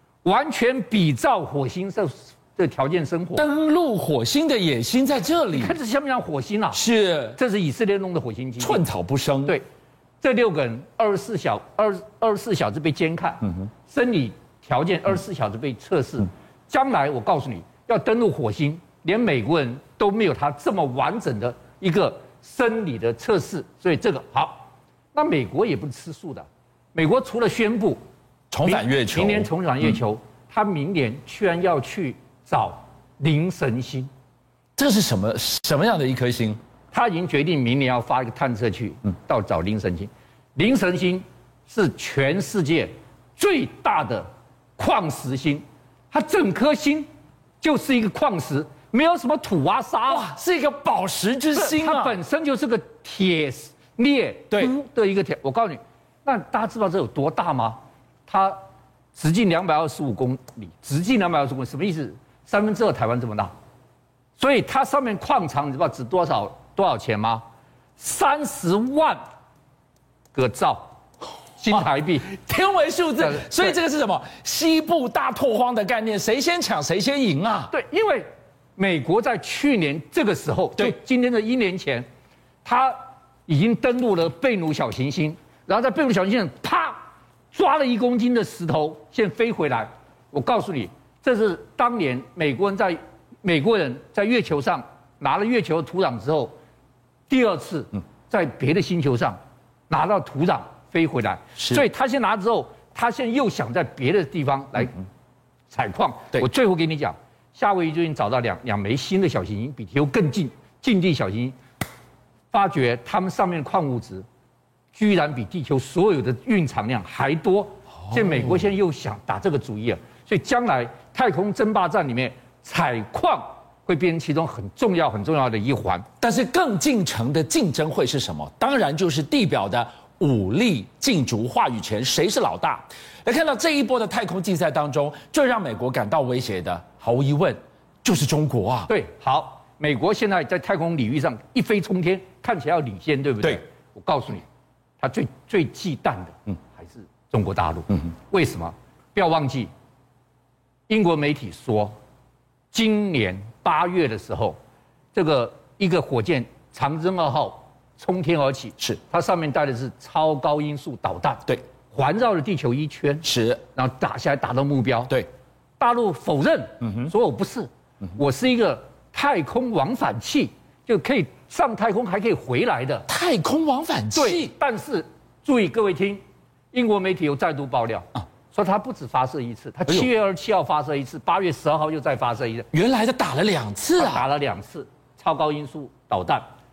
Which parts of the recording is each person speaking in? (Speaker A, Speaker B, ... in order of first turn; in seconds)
Speaker A: 0.2-3.5, 5.5-6.8, 7.4-8.8, 10.2-28.0, 28.6-34.1, 36.9-47.1, 47.6-50.3, 51.5-58.6, 59.1-63.5, 64.4-67.4, 68.0-69.2, 70.3-70.9, 71.6-72.3, 73.2-73.8, 77.7-82.0, 82.6-96.5, 97.3-104.9, 105.7-111.5, 112.5-114.2, 114.9-126.1, 138.9-144.4, 145.0-149.7, 150.9-151.9, 152.7-154.6, 155.1-165.2, 165.8-173.1, 174.1-176.2, 176.7-182.7, 183.9-186.4
Speaker B: 3.4-5.8, 6.7-7.4, 8.6-9.6, 28.5-29.9, 34.8-36.6, 50.1-52.2, 71.7-77.7, 101.5-101.8, 118.0-118.6, 126.2-138.9, 163.2-163.7, 166.8-167.1, 173.1-174.5, 182.7-184.2